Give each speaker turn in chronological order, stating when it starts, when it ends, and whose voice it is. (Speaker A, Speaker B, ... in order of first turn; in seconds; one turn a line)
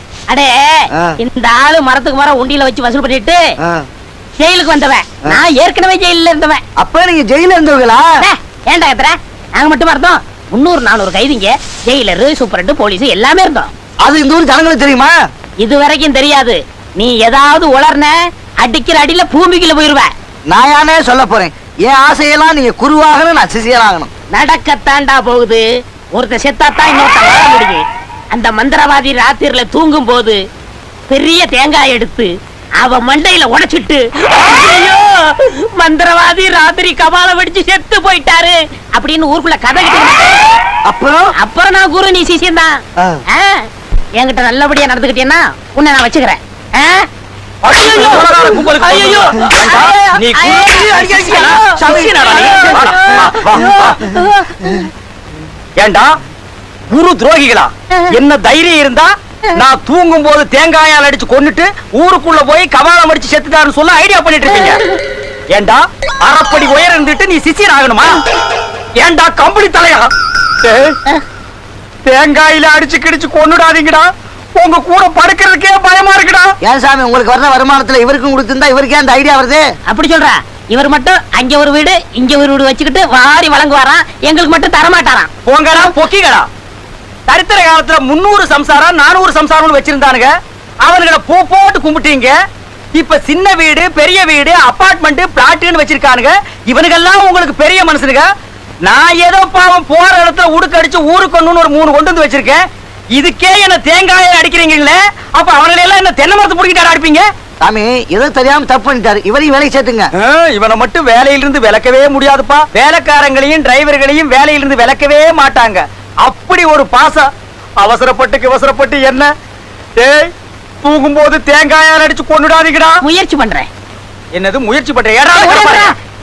Speaker A: 0.3-3.4
Speaker A: 4.4-6.6
Speaker B: 6.8-8.1
Speaker A: 8.2-13.7
Speaker B: 14.0-15.2
Speaker A: 15.6-20.1
Speaker B: 20.5-24.1
Speaker A: 24.3-25.6
Speaker A: 26.1-30.4
Speaker A: 31.1-40.4
Speaker B: 40.9-41.3
Speaker A: 41.4-42.8
Speaker A: 43.3-43.6
Speaker A: 44.2-47.1
Speaker C: 47.6-54.0
Speaker A: 48.8-54.3
Speaker B: 51.1-51.4
Speaker C: 55.8-56.1
Speaker C: 56.9-64.8
Speaker C: 65.5-68.2
Speaker C: 69.0-70.1
Speaker C: 70.6-71.0
Speaker C: 72.0-76.5
Speaker B: 76.6-79.6
Speaker A: 79.9-85.3
Speaker C: 85.5-86.5
Speaker C: 87.3-92.3
Speaker C: 92.9-98.3
Speaker C: 98.8-107.3
Speaker B: 107.6-110.1
Speaker C: 110.1-119.3
Speaker C: 120.0-123.0
Speaker A: 123.0-123.7
Speaker C: 124.3-125.9
Speaker A: 125.3-125.9